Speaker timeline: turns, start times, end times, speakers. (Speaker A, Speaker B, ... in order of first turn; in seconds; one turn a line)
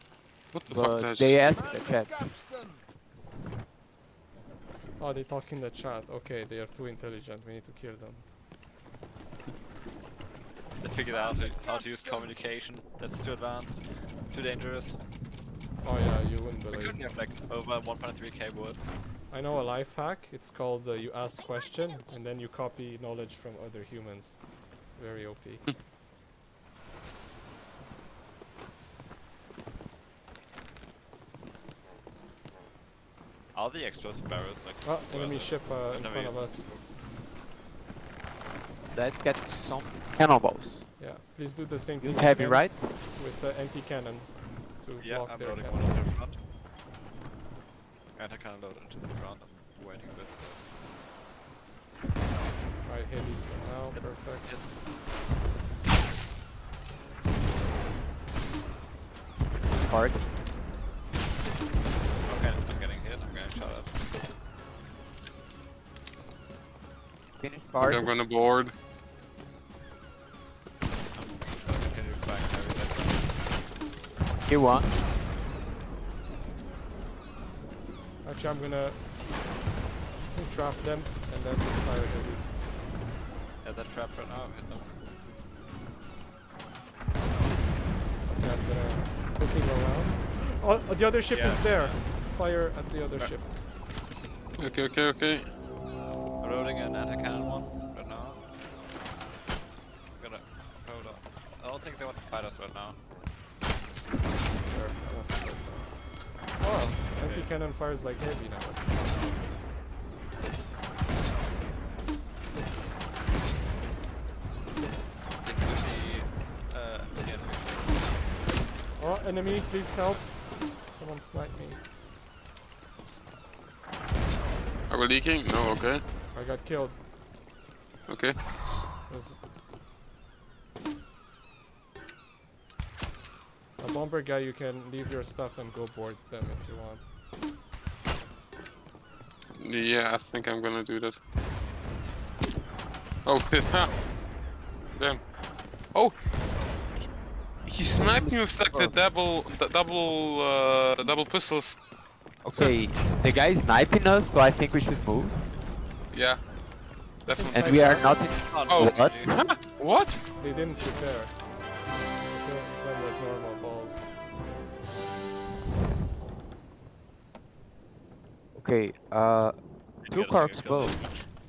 Speaker A: 0.5-1.4
Speaker B: 0.7-2.6
Speaker C: 5.0-8.3
Speaker D: 10.8-15.0
Speaker C: 15.8-17.0
Speaker D: 16.7-18.9
Speaker C: 19.3-25.7
Speaker D: 33.5-36.8
Speaker C: 34.8-36.7
Speaker B: 38.9-40.9
Speaker C: 41.0-46.1
Speaker B: 42.0-43.0
Speaker D: 45.0-46.4
Speaker D: 48.1-50.6
Speaker C: 52.8-54.5
Speaker D: 53.9-54.7
Speaker B: 59.8-60.3
Speaker D: 62.2-63.9
Speaker B: 67.4-68.1
Speaker A: 67.9-68.7
Speaker D: 71.1-73.3
Speaker B: 74.5-75.0
Speaker C: 78.2-79.1
Speaker C: 80.3-82.6
Speaker D: 83.6-85.0
Speaker D: 87.3-87.5
Speaker C: 88.3-93.5
Speaker D: 91.3-92.1
Speaker D: 93.2-93.4
Speaker A: 94.6-95.5
Speaker D: 96.4-98.4
Speaker D: 100.1-103.0
Speaker C: 104.6-109.0
Speaker D: 107.1-107.5
Speaker D: 115.4-118.1
Speaker C: 118.9-121.8
Speaker A: 124.9-126.0
Speaker C: 126.3-127.0
Speaker A: 128.1-128.4
Speaker C: 129.1-129.4
Speaker C: 133.8-137.1
Speaker A: 139.5-141.2
Speaker A: 143.2-144.0
Speaker A: 144.9-146.2
Speaker A: 147.6-151.8
Speaker B: 147.9-148.9
Speaker B: 152.4-155.5
Speaker A: 156.1-156.4
Speaker A: 157.2-157.9
Speaker C: 157.3-158.2
Speaker B: 157.5-159.3
Speaker D: 158.2-159.3
Speaker A: 158.7-160.2
Speaker C: 160.3-164.2
Speaker B: 168.5-171.1
Speaker D: 170.1-171.3